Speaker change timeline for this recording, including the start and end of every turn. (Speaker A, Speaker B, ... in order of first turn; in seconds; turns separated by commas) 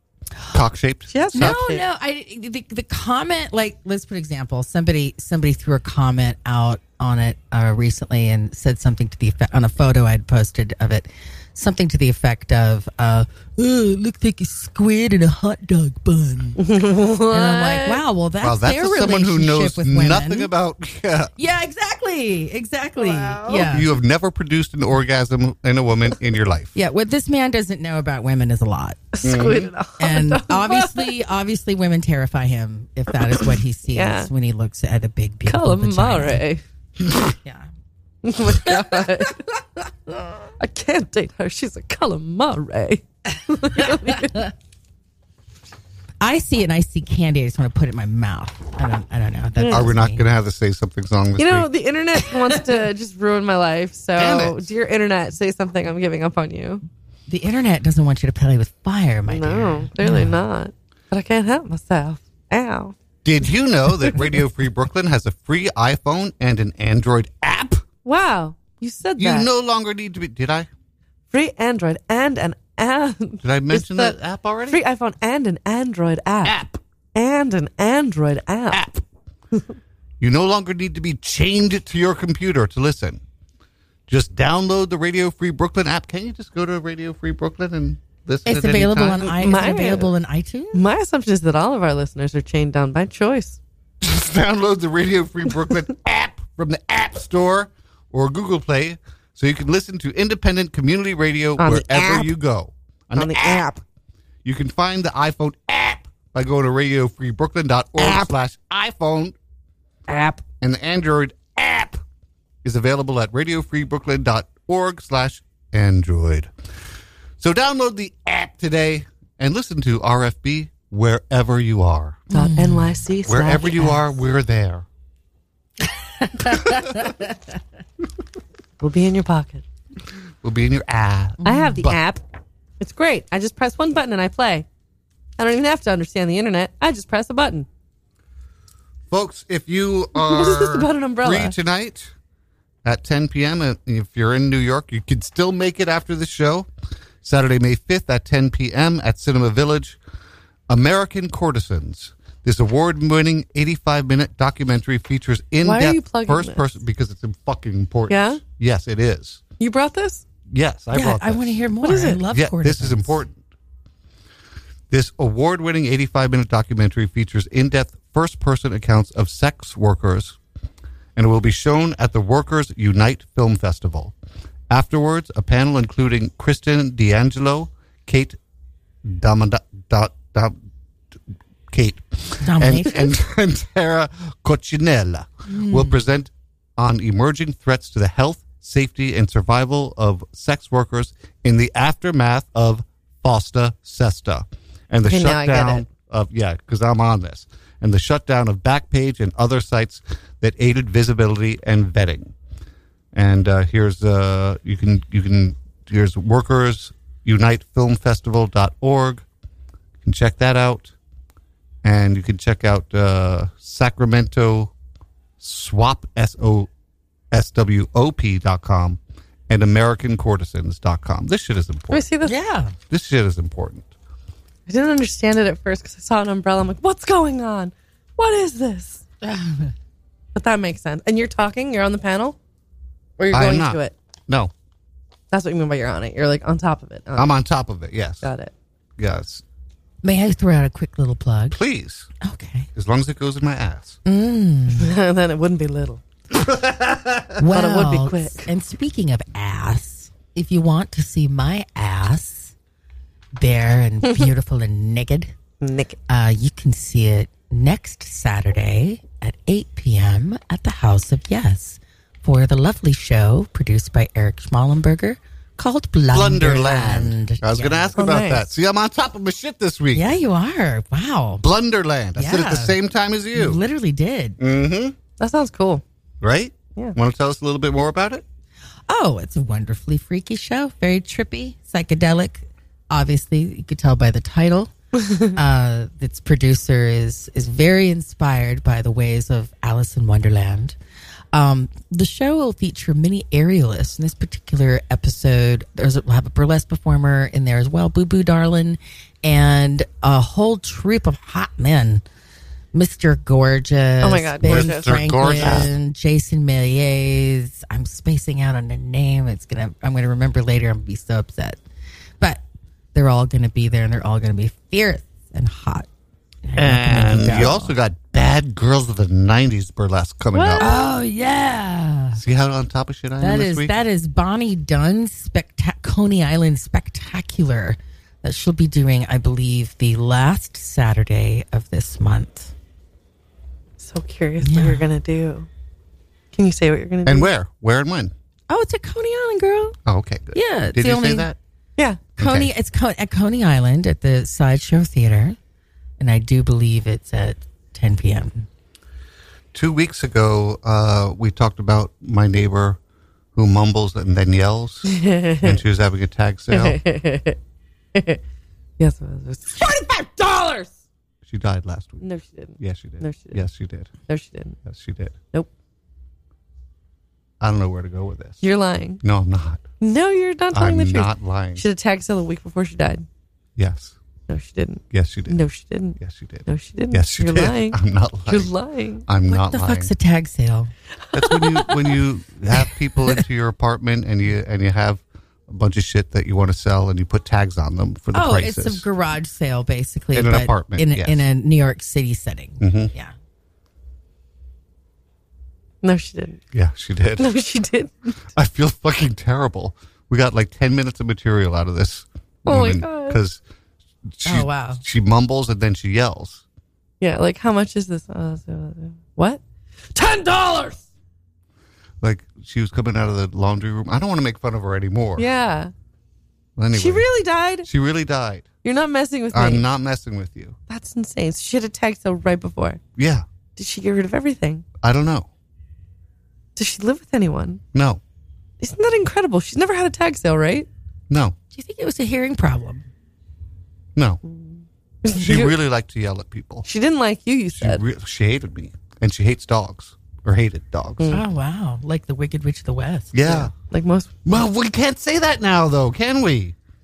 Speaker A: 0.5-1.6, Speaker B: 1.1-1.8, Speaker C: 1.3-16.7, Speaker B: 16.6-18.0, Speaker C: 17.3-20.5, Speaker A: 18.4-21.3, Speaker C: 21.4-23.9, Speaker B: 23.0-23.8, Speaker A: 23.7-26.7, Speaker C: 26.7-29.1, Speaker B: 29.1-31.1, Speaker A: 29.2-29.7, Speaker C: 30.0-36.4, Speaker B: 33.3-34.3, Speaker B: 35.5-36.6, Speaker C: 37.4-37.7, Speaker B: 38.2-39.4, Speaker C: 38.5-39.3, Speaker B: 40.6-44.5, Speaker C: 43.8-44.5, Speaker C: 46.2-50.2, Speaker B: 49.6-49.9, Speaker A: 49.7-51.7, Speaker B: 51.4-56.8, Speaker A: 54.2-54.7, Speaker C: 57.3-60.4, Speaker B: 59.3-62.9, Speaker A: 63.2-67.8, Speaker B: 68.0-69.5, Speaker A: 69.2-70.7, Speaker B: 71.3-74.2, Speaker A: 73.4-74.8, Speaker B: 74.7-76.6, Speaker A: 76.4-76.8, Speaker B: 77.1-78.9, Speaker A: 78.7-79.0, Speaker A: 80.2-83.2, Speaker A: 84.1-89.3, Speaker C: 88.5-90.8, Speaker B: 89.2-90.1, Speaker B: 90.7-93.6, Speaker A: 94.0-103.7, Speaker B: 101.6-102.3, Speaker B: 103.1-103.8, Speaker A: 104.4-109.3, Speaker B: 108.0-108.3, Speaker B: 110.1-110.4, Speaker A: 110.6-112.0, Speaker A: 112.6-116.5, Speaker A: 117.4-122.2, Speaker C: 122.3-123.0, Speaker B: 122.3-124.1, Speaker A: 123.2-124.8, Speaker C: 126.4-127.2, Speaker B: 128.8-129.6, Speaker A: 130.4-132.0, Speaker C: 131.4-131.8, Speaker B: 131.4-132.2, Speaker B: 132.8-134.7, Speaker B: 135.4-137.7, Speaker A: 139.1-142.1, Speaker B: 140.1-141.5, Speaker A: 142.8-146.7, Speaker A: 147.2-150.0, Speaker A: 150.7-159.4, Speaker B: 155.6-156.7, Speaker B: 158.1-158.4, Speaker B: 159.6-160.2, Speaker A: 160.5-161.6, Speaker C: 160.9-163.2, Speaker B: 161.8-162.2, Speaker A: 162.3-163.4, Speaker A: 164.9-170.4, Speaker A: 171.2-174.1, Speaker A: 174.7-178.4, Speaker A: 179.0-180.6, Speaker A: 181.7-202.3, Speaker C: 182.4-183.1, Speaker C: 185.5-186.0, Speaker B: 195.1-195.8, Speaker A: 203.1-209.2, Speaker A: 210.0-210.9, Speaker A: 211.8-214.7, Speaker A: 215.4-216.7, Speaker A: 217.3-222.1, Speaker B: 221.9-222.3, Speaker C: 222.2-222.7, Speaker A: 222.9-223.9, Speaker B: 224.7-229.0, Speaker C: 229.2-229.7, Speaker B: 230.3-232.3, Speaker B: 233.2-233.9, Speaker A: 233.3-234.5, Speaker B: 235.3-237.3, Speaker A: 237.2-238.3, Speaker B: 238.2-238.5, Speaker A: 239.0-239.4, Speaker C: 240.0-241.6, Speaker A: 241.5-242.1, Speaker C: 242.2-242.7, Speaker A: 242.7-244.0, Speaker C: 244.1-244.9, Speaker B: 244.7-246.0, Speaker A: 246.3-247.4, Speaker C: 247.4-252.5, Speaker B: 247.5-248.5, Speaker C: 253.3-255.3, Speaker B: 255.6-256.0, Speaker C: 256.1-268.0, Speaker A: 266.1-270.1, Speaker B: 267.9-268.5, Speaker C: 269.9-271.4, Speaker A: 271.4-273.6, Speaker C: 272.1-272.8, Speaker C: 273.3-274.4, Speaker A: 274.4-274.9, Speaker B: 275.2-275.8, Speaker A: 276.2-278.2, Speaker C: 278.9-290.8, Speaker C: 291.3-302.0, Speaker C: 302.7-311.6, Speaker B: 304.0-305.6, Speaker A: 304.4-305.7, Speaker C: 312.9-315.9, Speaker C: 316.4-317.7, Speaker A: 316.6-320.8, Speaker B: 320.3-320.9, Speaker C: 320.6-322.2, Speaker A: 322.1-323.7, Speaker C: 323.2-332.5, Speaker B: 333.8-335.5, Speaker C: 334.4-334.8, Speaker B: 336.3-337.3, Speaker A: 337.1-338.1, Speaker C: 338.5-339.8, Speaker A: 339.9-341.4, Speaker C: 340.3-341.3, Speaker B: 341.8-342.0, Speaker A: 342.2-342.5, Speaker C: 342.2-345.4, Speaker C: 346.0-348.5, Speaker A: 349.5-352.8, Speaker A: 353.3-356.8, Speaker B: 354.9-355.6, Speaker B: 356.5-357.4, Speaker B: 357.9-358.2, Speaker B: 358.8-360.7, Speaker A: 361.2-362.0, Speaker B: 362.0-363.4, Speaker A: 362.6-363.9, Speaker B: 364.1-364.6, Speaker A: 364.6-365.1, Speaker A: 367.4-368.4, Speaker B: 368.4-369.0, Speaker A: 369.0-369.6, Speaker B: 369.8-373.0, Speaker A: 370.5-371.6, Speaker A: 373.6-373.9, Speaker B: 374.3-379.0, Speaker A: 374.9-375.4, Speaker A: 376.0-378.5, Speaker A: 379.1-379.9, Speaker C: 379.3-380.7, Speaker A: 381.1-388.9, Speaker B: 381.1-382.0, Speaker C: 388.1-393.1, Speaker A: 390.1-391.2, Speaker A: 392.6-392.9, Speaker B: 395.8-396.4, Speaker A: 396.5-397.3, Speaker B: 397.2-398.1, Speaker A: 398.4-403.4, Speaker B: 402.4-403.2, Speaker A: 404.1-406.4, Speaker B: 404.3-404.8, Speaker B: 407.0-409.4, Speaker B: 409.9-410.8, Speaker A: 412.0-415.3, Speaker B: 415.2-415.7, Speaker A: 416.6-417.1, Speaker B: 416.7-417.7, Speaker A: 417.6-418.5, Speaker B: 418.6-419.6, Speaker A: 419.3-420.6, Speaker B: 420.7-422.8, Speaker A: 423.0-423.2, Speaker B: 423.6-424.6, Speaker A: 424.8-425.3, Speaker B: 426.6-427.6, Speaker A: 427.7-428.0, Speaker B: 428.6-430.7, Speaker A: 431.1-431.3, Speaker C: 431.5-432.8, Speaker A: 433.9-434.2, Speaker B: 434.2-435.6, Speaker A: 435.1-436.6, Speaker B: 436.6-437.8, Speaker A: 437.5-441.1, Speaker C: 441.1-443.4, Speaker A: 443.1-443.5, Speaker B: 443.2-444.3, Speaker A: 444.2-446.5